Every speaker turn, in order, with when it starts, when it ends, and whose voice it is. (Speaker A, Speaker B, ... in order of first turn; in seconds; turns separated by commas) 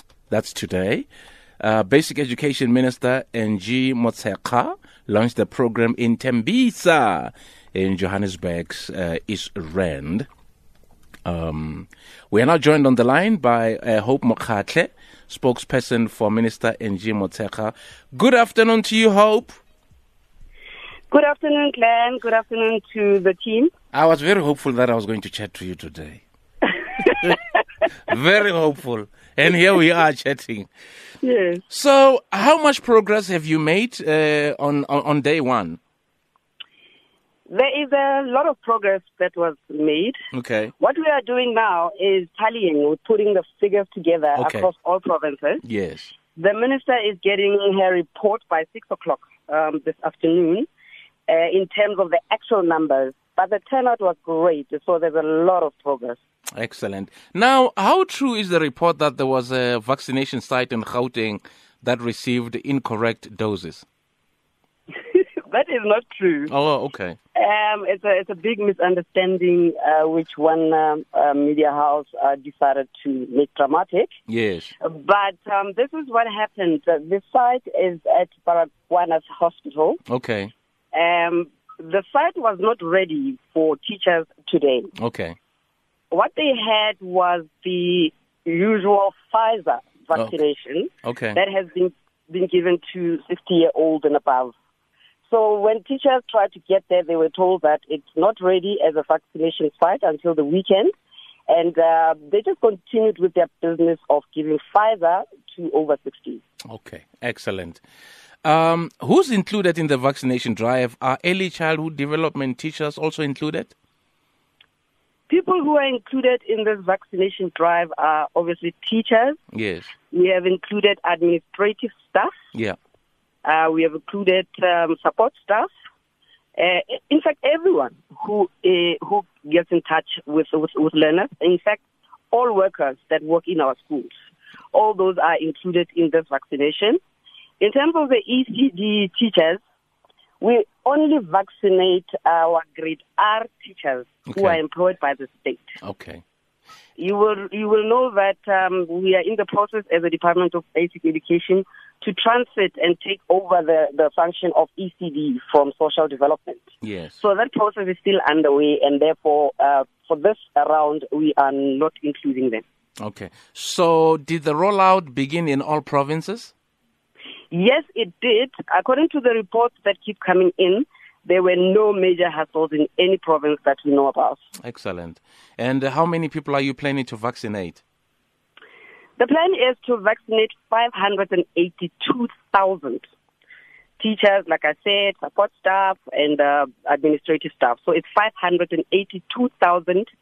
Speaker A: 0.3-1.1, Speaker A: 1.6-10.3, Speaker A: 11.2-19.6, Speaker B: 21.1-23.7, Speaker A: 23.9-26.2, Speaker A: 28.1-30.7, Speaker B: 31.2-31.6, Speaker A: 31.7-35.8, Speaker B: 37.5-40.2, Speaker A: 40.3-40.7, Speaker B: 40.8-45.6, Speaker A: 44.4-44.7, Speaker A: 45.6-46.1, Speaker B: 46.4-50.7, Speaker B: 51.3-56.2, Speaker A: 56.6-63.9, Speaker B: 65.1-66.5, Speaker A: 66.5-67.2, Speaker B: 67.4-74.1, Speaker A: 74.3-74.7, Speaker B: 74.8-80.0, Speaker A: 80.1-80.5, Speaker B: 80.9-84.9, Speaker A: 85.0-85.4, Speaker B: 86.1-94.5, Speaker A: 91.0-91.4, Speaker B: 95.3-100.9, Speaker B: 101.5-106.4, Speaker A: 106.7-107.8, Speaker A: 108.4-113.8, Speaker B: 115.3-119.4, Speaker A: 119.5-119.9, Speaker B: 120.1-122.3, Speaker B: 123.4-125.7, Speaker B: 126.6-134.1, Speaker B: 134.7-137.0, Speaker B: 137.6-139.6, Speaker B: 140.4-145.8, Speaker A: 144.3-144.6, Speaker A: 145.8-146.2, Speaker B: 147.0-162.6, Speaker A: 156.8-157.2, Speaker A: 163.0-166.5, Speaker B: 167.5-174.4, Speaker A: 174.6-177.8, Speaker B: 179.2-183.1, Speaker B: 184.0-190.1